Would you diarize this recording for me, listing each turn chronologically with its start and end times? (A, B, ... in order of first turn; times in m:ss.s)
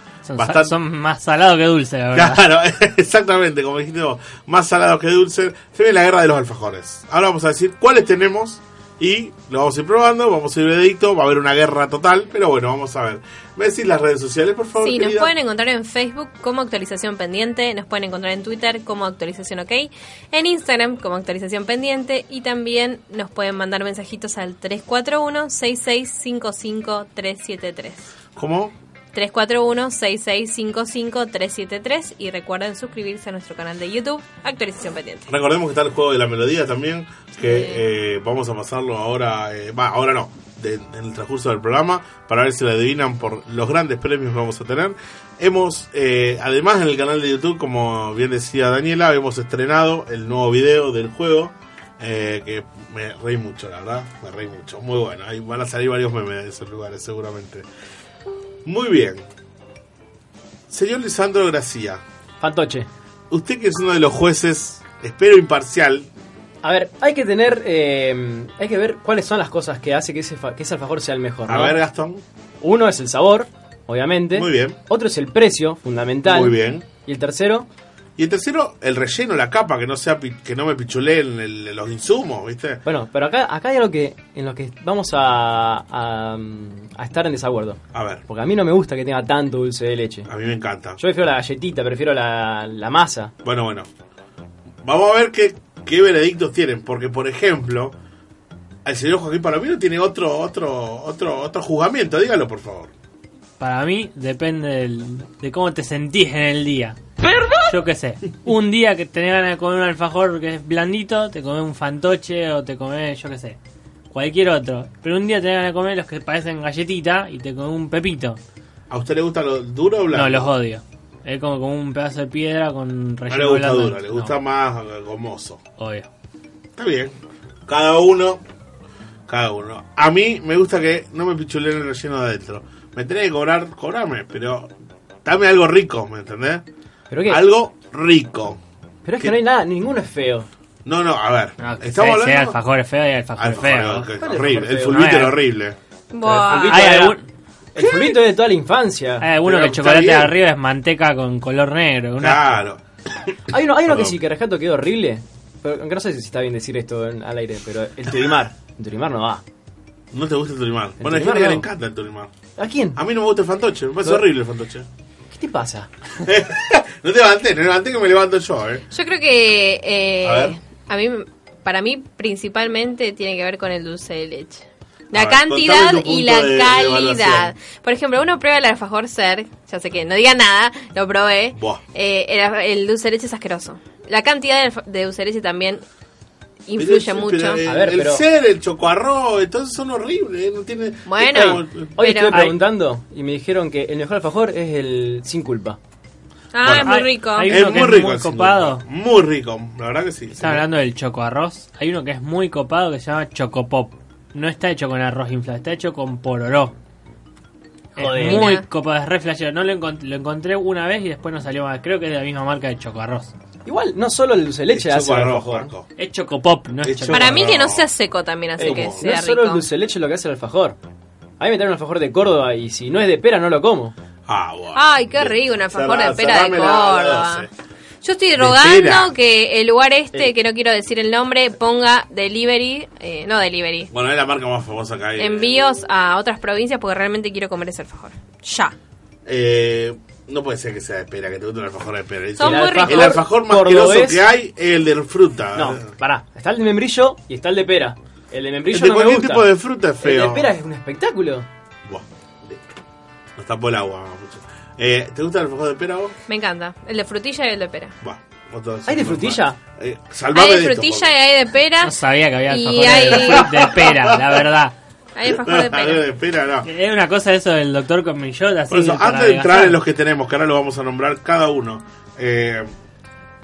0:00.3-0:02.4 A
0:00.4-0:00.7 B
0:02.1-0:15.3 B
0:14.8-0:28.1 C
0:28.4-0:28.7 B
0:29.1-0:35.3 C
0:35.3-0:57.6 B
0:37.4-0:37.8 C
0:58.6-0:59.2 B
1:00.7-1:02.0 B
1:02.4-1:02.9 D
1:03.3-1:06.1 B
1:06.6-1:11.8 D
1:11.5-1:12.2 B
1:12.6-1:17.7 D
1:14.3-1:14.8 B
1:16.2-1:16.8 B
1:18.2-1:22.8 B
1:22.8-1:30.3 D
1:27.9-1:28.2 B
1:30.3-1:31.0 B
1:31.0-1:33.3 D
1:33.4-1:33.9 B
1:34.8-1:38.0 B
1:38.8-1:42.9 B
1:43.6-1:47.0 A
1:47.7-1:53.6 A
1:54.1-1:58.4 A
1:58.9-2:00.5 B
2:00.1-2:04.4 A
2:03.3-2:05.6 B
2:05.8-2:06.1 A
2:06.8-2:07.1 B
2:07.6-2:08.4 B
2:09.3-2:14.7 B
2:15.2-2:16.6 B
2:17.1-2:17.5 D
2:17.2-2:18.6 B
2:19.0-2:20.5 D
2:20.8-2:22.6 B
2:21.6-2:24.1 A
2:23.4-2:25.8 B
2:24.2-2:25.3 D
2:25.0-2:25.3 A
2:26.1-2:26.9 C
2:26.2-2:27.2 D
2:26.5-2:27.2 A
2:27.7-2:29.3 D
2:27.8-2:28.2 B
2:29.2-2:32.6 A
2:29.4-2:30.4 B
2:32.2-2:32.8 B
2:33.3-2:34.2 B
2:33.5-2:39.4 D
2:40.1-2:42.3 B
2:41.0-2:41.7 D
2:42.6-2:43.0 D
2:43.0-2:44.9 B
2:45.3-2:45.9 D
2:46.2-2:48.8 B
2:48.9-3:05.8 C
2:50.2-2:50.6 B
2:55.1-2:57.5 B
3:01.5-3:01.8 B
3:06.6-3:07.6 C
3:06.8-3:11.9 B
3:07.6-3:08.2 D
3:11.0-3:12.4 C
3:11.4-3:15.8 D
3:16.5-3:17.5 C
3:16.6-3:20.7 B
3:16.8-3:18.8 A
3:20.4-3:26.7 A
3:27.9-3:33.3 A
3:28.0-3:28.5 D
3:28.2-3:28.6 C
3:33.6-3:35.7 D
3:34.7-3:35.9 B
3:36.0-3:37.4 A
3:36.8-3:37.9 B
3:37.1-3:39.6 C
3:38.6-3:40.8 D
3:38.6-3:39.1 B
3:41.4-3:43.9 D
3:44.3-3:47.5 B
3:44.7-3:47.5 C
3:48.0-3:53.9 C
3:48.4-3:49.1 B
3:53.9-3:55.6 B
3:55.2-3:58.7 C
3:59.2-4:05.9 B
4:02.4-4:03.2 C
4:02.4-4:04.2 D
4:05.5-4:09.5 D
4:08.7-4:10.5 B
4:10.0-4:11.4 D
4:11.8-4:12.6 B
4:13.4-4:16.2 B
4:16.3-4:17.9 C
4:18.0-4:21.1 B
4:18.8-4:19.6 D
4:20.3-4:21.9 C
4:21.8-4:24.7 A
4:22.4-4:23.7 C
4:23.1-4:24.4 B
4:25.1-4:26.0 C
4:25.3-4:26.7 B
4:26.6-4:29.8 A
4:28.7-4:32.7 B